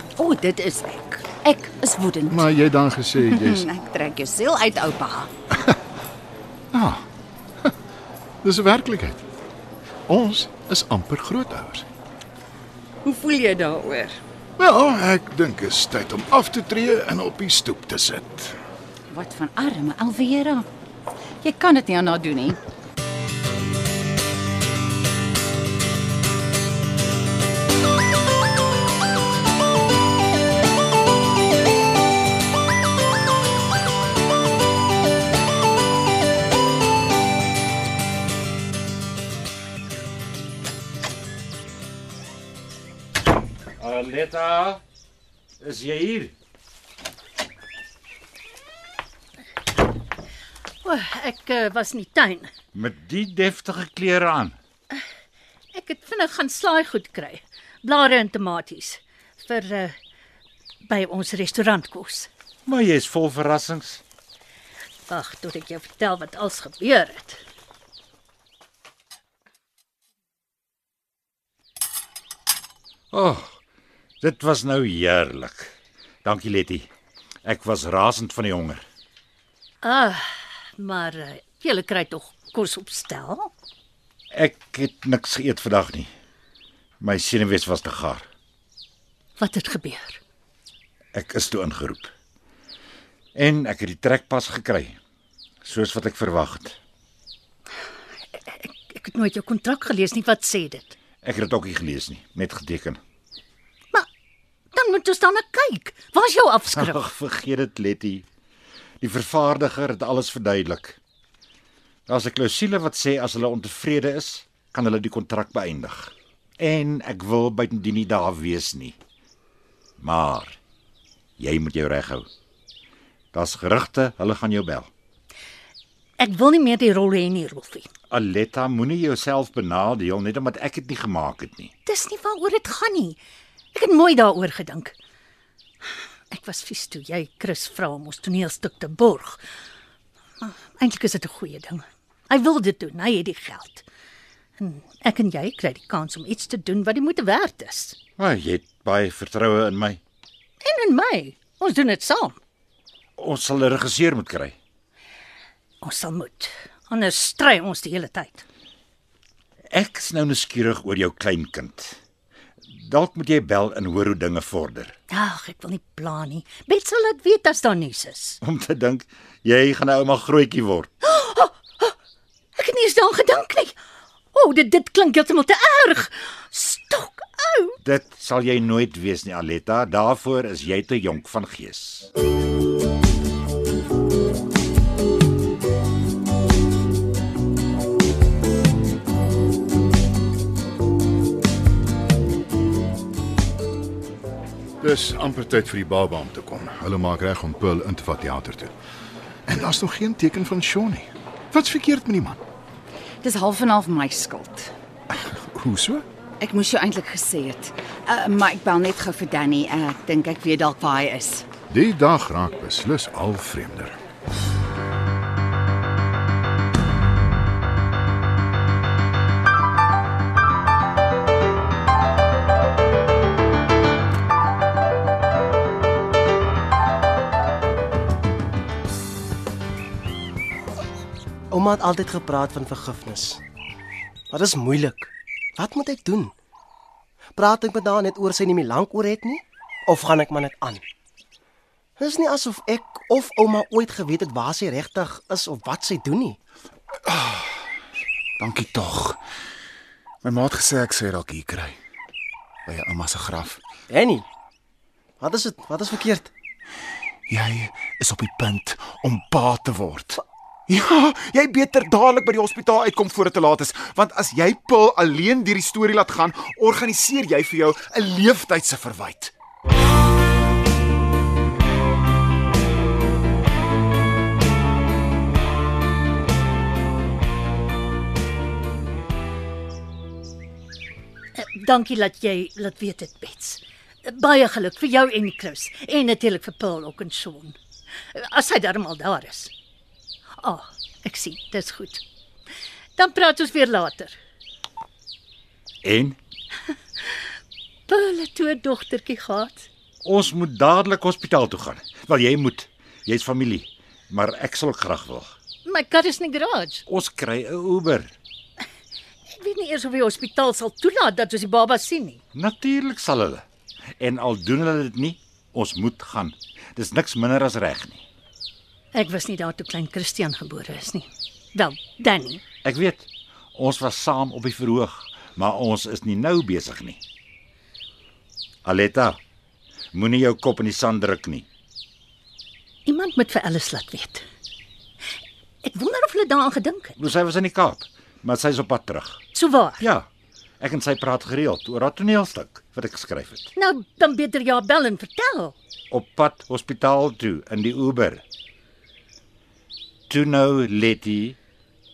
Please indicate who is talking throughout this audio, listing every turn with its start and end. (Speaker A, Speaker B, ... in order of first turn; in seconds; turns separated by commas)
Speaker A: 0.2-2.5, Speaker B: 2.3-3.6, Speaker A: 3.2-5.3, Speaker B: 6.7-7.0, Speaker B: 8.4-9.2, Speaker B: 10.1-11.8, Speaker A: 13.0-14.2, Speaker B: 14.6-18.6, Speaker A: 19.1-20.7, Speaker A: 21.4-22.6, Speaker C: 43.8-44.8, Speaker C: 45.6-46.3, Speaker D: 50.8-52.5, Speaker C: 52.7-54.6, Speaker D: 55.7-59.9, Speaker D: 60.8-62.3, Speaker C: 62.6-64.0, Speaker D: 65.1-67.4, Speaker C: 73.1-73.6, Speaker C: 74.2-76.9, Speaker C: 77.4-78.8, Speaker D: 79.8-80.2, Speaker D: 80.8-83.5, Speaker C: 84.3-86.1, Speaker C: 87.0-88.2, Speaker D: 89.4-90.2, Speaker C: 91.1-92.1, Speaker C: 93.3-95.0, Speaker C: 95.6-96.8, Speaker D: 98.3-100.9, Speaker C: 101.2-103.0, Speaker D: 104.7-107.0, Speaker C: 106.7-108.2, Speaker C: 109.0-111.0, Speaker C: 112.1-119.0, Speaker C: 120.0-120.6, Speaker C: 121.4-122.3, Speaker C: 123.3-124.9, Speaker D: 126.2-127.9, Speaker C: 128.1-131.7, Speaker D: 131.8-133.2, Speaker D: 133.7-134.9, Speaker D: 136.3-139.4, Speaker D: 140.4-143.8, Speaker D: 144.6-148.0, Speaker C: 148.2-150.0, Speaker D: 150.6-152.4, Speaker C: 153.2-154.6, Speaker D: 155.8-158.4, Speaker C: 159.7-162.0, Speaker C: 162.7-164.9, Speaker D: 165.1-168.4, Speaker C: 168.4-170.9, Speaker D: 171.0-171.9, Speaker D: 172.6-173.7, Speaker D: 174.3-177.8, Speaker C: 177.8-182.1, Speaker B: 194.8-198.7, Speaker B: 199.5-202.4, Speaker A: 203.2-204.7, Speaker B: 205.2-206.0, Speaker A: 206.4-211.4, Speaker B: 211.7-213.9, Speaker E: 231.5-233.4, Speaker E: 234.3-236.3, Speaker E: 237.3-240.8, Speaker E: 242.0-246.4, Speaker F: 247.1-247.6, Speaker F: 248.4-249.2, Speaker F: 250.2-251.8, Speaker F: 252.7-253.6, Speaker E: 253.9-254.2, Speaker E: 255.2-256.3, Speaker F: 257.3-269.3, Speaker D: 281.4-287.6, Speaker D: 288.1-289.5, Speaker D: 290.4-292.0, Speaker D: 293.0-294.1, Speaker C: 295.8-296.2, Speaker D: 297.9-299.7, Speaker C: 300.0-305.3, Speaker D: 305.6-306.8, Speaker C: 306.9-308.1, Speaker D: 309.3-312.2, Speaker C: 312.3-313.4, Speaker C: 314.0-318.0, Speaker D: 318.9-322.4, Speaker C: 322.6-327.0, Speaker C: 328.6-329.2, Speaker C: 329.9-331.5, Speaker D: 332.9-334.2, Speaker D: 335.6-336.9, Speaker C: 337.0-339.2, Speaker D: 339.3-339.8, Speaker C: 339.8-340.1, Speaker C: 340.6-343.5, Speaker D: 343.6-345.5, Speaker C: 345.9-348.2, Speaker C: 350.1-351.4